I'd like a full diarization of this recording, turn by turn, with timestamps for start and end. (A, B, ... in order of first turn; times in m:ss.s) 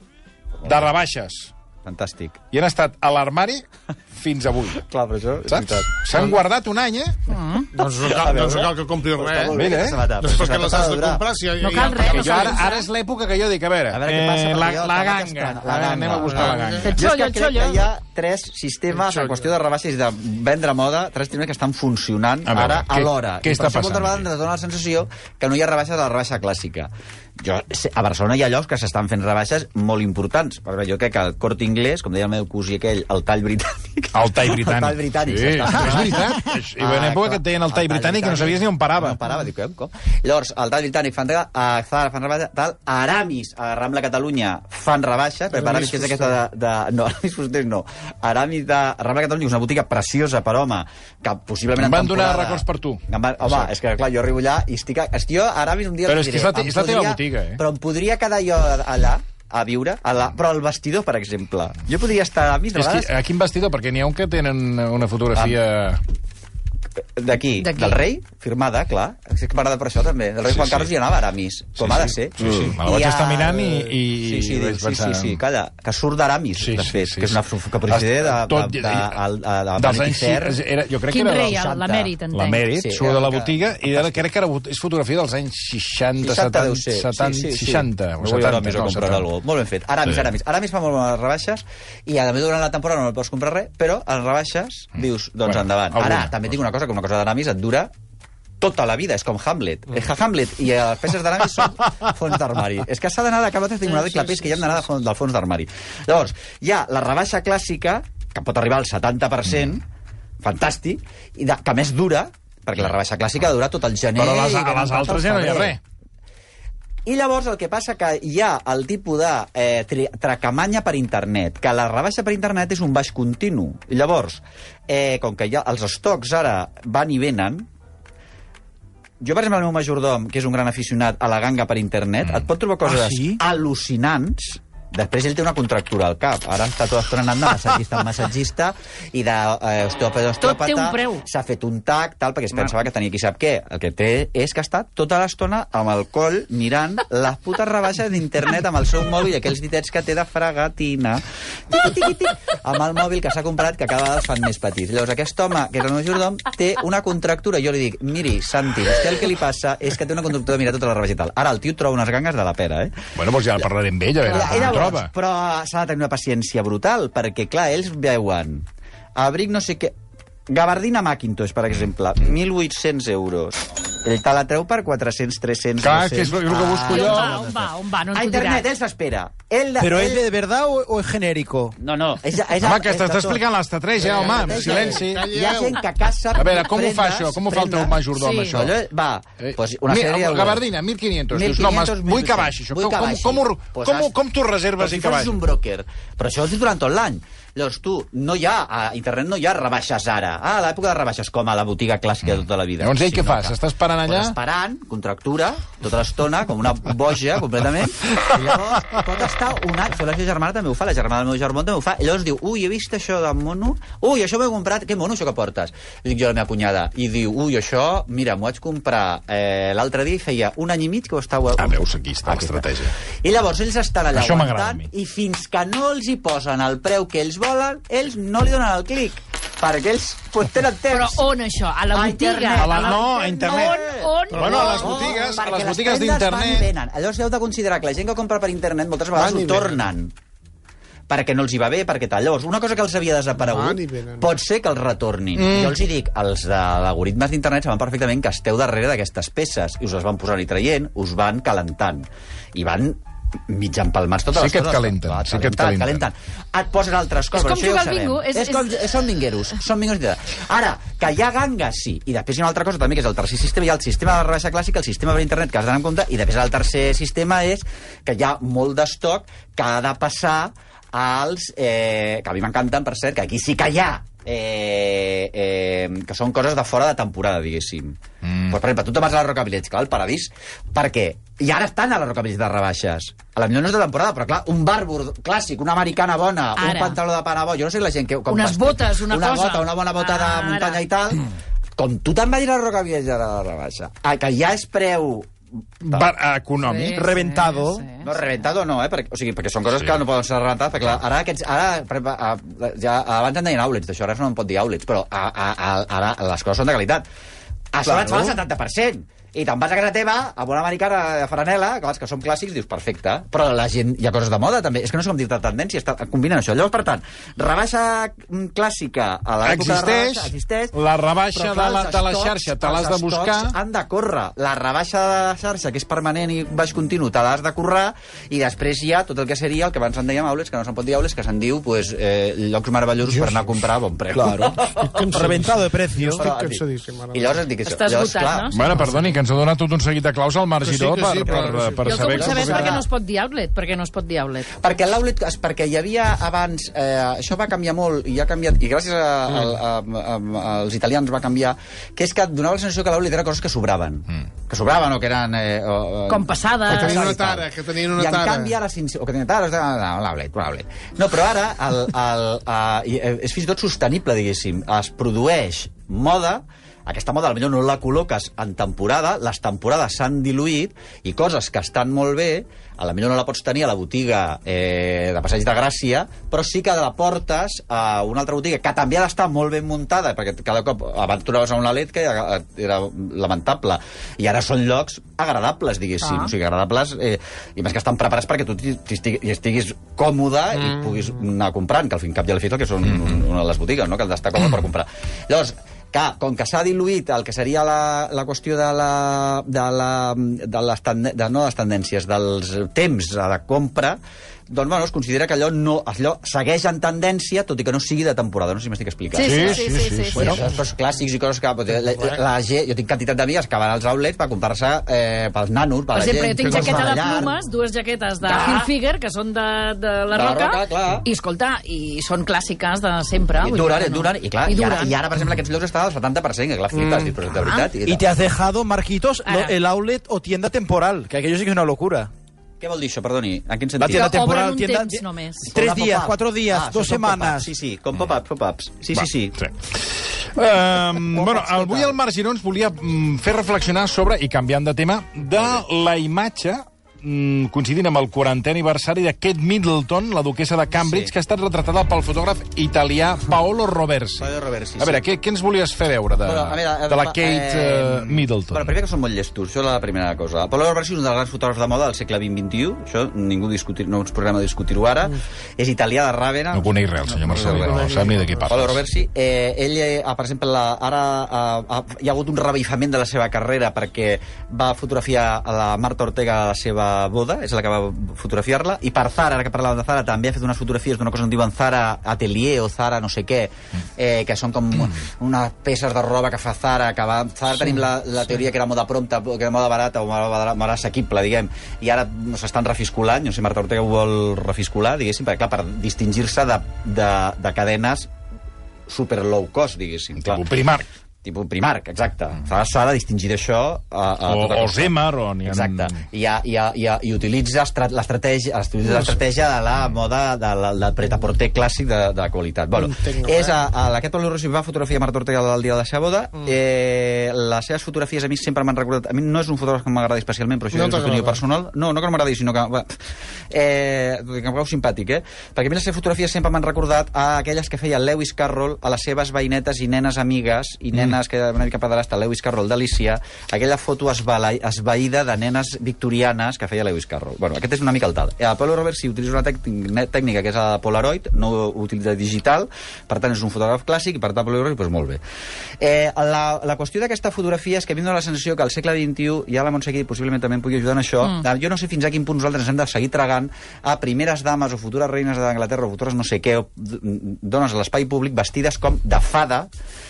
0:00.6-0:00.9 A
0:00.6-0:01.5 B
0:01.8-0:02.4 A
0:02.5-0:04.8 B
0:04.8-0:06.0 A
0:05.5-0:07.2 B
0:07.3-0:07.7 C
0:07.7-0:09.6 D
0:08.0-0:11.2 A
0:09.5-0:10.1 B
0:10.2-0:12.6 D
0:11.6-0:12.9 C
0:12.0-0:17.1 B
0:13.9-1:03.1 A
0:16.2-0:16.8 D
0:16.8-0:17.9 C
0:18.9-0:19.5 D
0:22.5-0:24.3 B
0:34.1-0:39.2 B
0:45.5-0:46.4 D
0:51.8-0:53.7 B
0:56.1-0:57.6 B
1:02.7-1:06.0 B
1:07.0-1:20.6 A
1:07.6-1:08.0 C
1:10.5-1:11.0 B
1:11.8-1:15.4 B
1:16.6-1:19.2 B
1:19.8-1:21.6 B
1:21.1-1:22.6 C
1:21.4-1:22.1 A
1:22.3-1:29.3 B
1:22.7-1:24.2 A
1:26.2-1:37.9 A
1:35.4-1:36.5 B
1:38.6-1:49.8 A
1:43.9-1:44.8 C
1:50.4-1:55.8 A
1:54.2-1:55.8 B
1:57.1-2:07.7 A
2:09.2-2:43.0 A
2:12.8-2:13.4 E
2:20.4-2:21.2 C
2:43.2-2:45.1 B
2:44.3-2:50.0 A
2:44.3-2:44.7 C
2:50.5-3:00.3 A
2:55.8-2:57.5 B
2:56.8-2:58.6 C
2:59.8-3:01.8 E
3:01.8-3:03.4 A
3:02.6-3:05.3 B
3:04.0-3:10.7 A
3:04.0-3:05.9 D
3:06.3-3:08.8 B
3:08.2-3:08.6 C
3:09.4-3:15.4 B
3:11.3-3:14.1 A
3:14.8-3:51.3 A
3:22.8-3:24.4 B
3:41.6-3:43.0 B
3:44.1-3:44.9 B
3:50.9-3:55.2 C
3:51.9-4:00.1 A
3:52.5-3:53.8 B
3:54.3-3:56.7 B
3:54.4-3:54.8 D
3:59.1-3:59.8 D
4:01.1-4:55.3 A
4:03.4-4:04.3 D
4:05.4-4:05.8 B
4:14.3-4:16.1 B
4:17.3-4:18.8 C
4:38.2-4:38.6 B
4:46.6-4:47.0 C
4:48.3-4:50.8 C
4:55.8-4:56.1 A
4:55.8-4:57.3 B
4:56.6-4:58.1 C
4:56.9-4:57.9 E
4:58.0-5:07.0 A
5:07.7-5:20.8 A
5:07.9-5:08.2 E
5:19.4-5:23.6 B
5:21.3-5:35.0 A
5:33.1-5:33.4 D
5:34.1-5:36.3 E
5:34.8-5:37.4 D
5:36.2-5:38.5 A
5:37.7-5:38.5 C
5:38.5-5:42.8 B
5:38.7-5:39.1 D
5:40.6-5:42.2 D
5:41.8-5:44.5 C
5:42.1-5:42.8 A
5:44.6-6:57.4 A
5:49.3-5:49.5 D
5:56.1-5:57.0 C
5:56.7-5:58.6 D
6:26.0-6:26.3 C
6:30.6-6:31.0 D
6:49.1-6:50.4 C
6:49.2-6:50.4 B
6:55.9-7:05.0 C
6:56.4-6:57.1 D
6:58.2-6:58.7 A
7:00.1-7:01.1 A
7:03.4-7:08.1 A
7:06.8-7:07.1 D
7:07.4-7:07.7 C
7:07.8-7:12.1 E
7:09.3-7:09.6 C
7:12.6-7:14.3 A
7:13.8-7:17.5 E
7:13.9-7:15.5 C
7:15.5-7:19.4 A
7:19.4-7:38.8 B
7:21.1-7:22.0 A
7:30.8-7:31.1 A
7:34.2-7:35.1 A
7:36.2-7:47.9 A
7:46.5-7:48.8 B
7:47.3-7:48.8 D
7:48.5-8:18.1 A
8:18.9-8:20.5 A
8:20.2-8:20.9 B
8:21.2-8:43.0 A
8:24.3-8:26.0 B
8:28.9-8:29.1 D
8:32.7-8:33.6 D
8:40.7-8:41.4 D
8:43.5-9:05.2 A
9:05.8-9:19.7 A